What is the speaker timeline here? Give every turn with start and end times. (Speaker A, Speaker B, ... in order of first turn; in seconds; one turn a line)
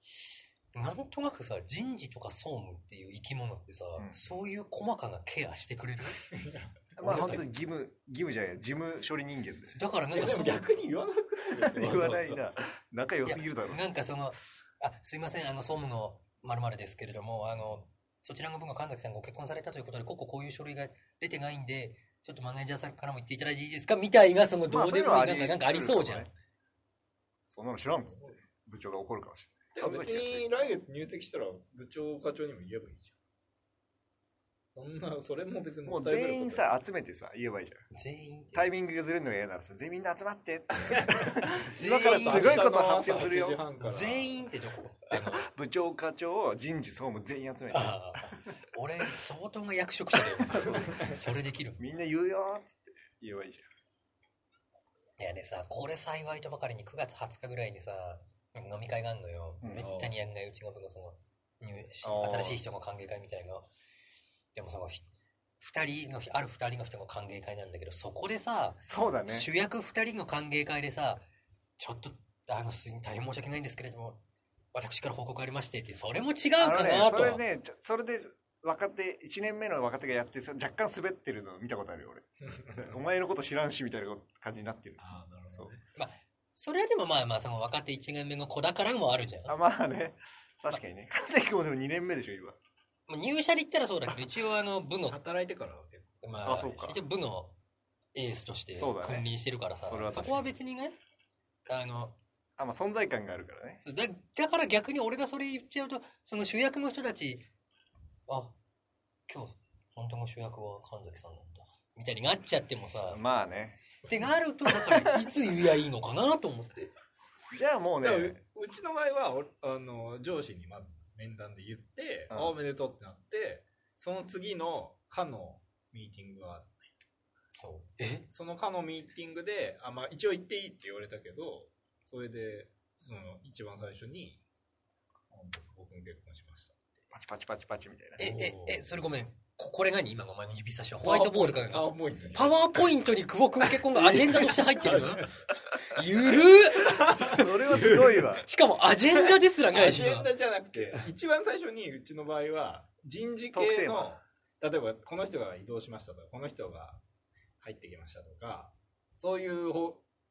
Speaker A: 0.7-6.3
Speaker B: 4.0-4.3
Speaker C: 6.3-6.8
Speaker B: 7.0-9.8
Speaker A: 7.0-7.5
Speaker A: 9.7-10.7
Speaker C: 10.1-12.4
Speaker B: 11.6-13.8
Speaker A: 13.2-26.3
Speaker B: 24.7-26.3
Speaker B: 27.5-30.5
Speaker C: 28.1-28.4
Speaker C: 29.8-33.1
Speaker C: 34.8-36.7
Speaker B: 35.9-37.8
Speaker A: 38.0-38.7
Speaker B: 38.5-43.6
Speaker C: 40.8-44.4
Speaker A: 41.7-42.8
Speaker A: 43.8-45.5
Speaker B: 45.1-48.3
Speaker A: 47.7-51.9
Speaker B: 50.5-51.1
Speaker B: 51.8-53.7
Speaker A: 55.2-63.7
Speaker B: 59.6-59.9
Speaker C: 59.8-60.1
Speaker B: 62.0-62.6
Speaker A: 64.5-65.1
Speaker A: 65.6-71.2
Speaker B: 68.8-69.5
Speaker A: 71.8-74.2
Speaker A: 74.7-77.4
Speaker B: 76.6-85.0
Speaker C: 82.4-83.0
Speaker C: 85.0-85.8
Speaker A: 86.0-89.5
Speaker B: 89.5-92.6
Speaker A: 93.1-95.2
Speaker C: 95.1-96.2
Speaker A: 96.2-97.5
Speaker B: 96.5-97.0
Speaker A: 98.2-101.0
Speaker B: 98.7-99.3
Speaker B: 99.8-100.5
Speaker A: 101.7-102.2
Speaker B: 102.6-103.8
Speaker A: 103.8-107.5
Speaker A: 108.3-108.5
Speaker A: 109.3-113.2
Speaker B: 113.1-113.8
Speaker A: 114.1-116.9
Speaker B: 117.5-118.4
Speaker C: 118.0-126.7
Speaker A: 127.6-128.2
Speaker C: 128.3-134.4
Speaker C: 135.3-137.1
Speaker B: 137.1-138.3
Speaker A: 138.2-147.2
Speaker C: 138.2-138.8
Speaker C: 141.0-142.7
Speaker C: 144.0-145.3
Speaker C: 146.7-148.3
Speaker B: 147.2-148.5
Speaker A: 148.4-150.3
Speaker C: 149.7-157.0
Speaker B: 153.5-154.1
Speaker C: 157.6-160.0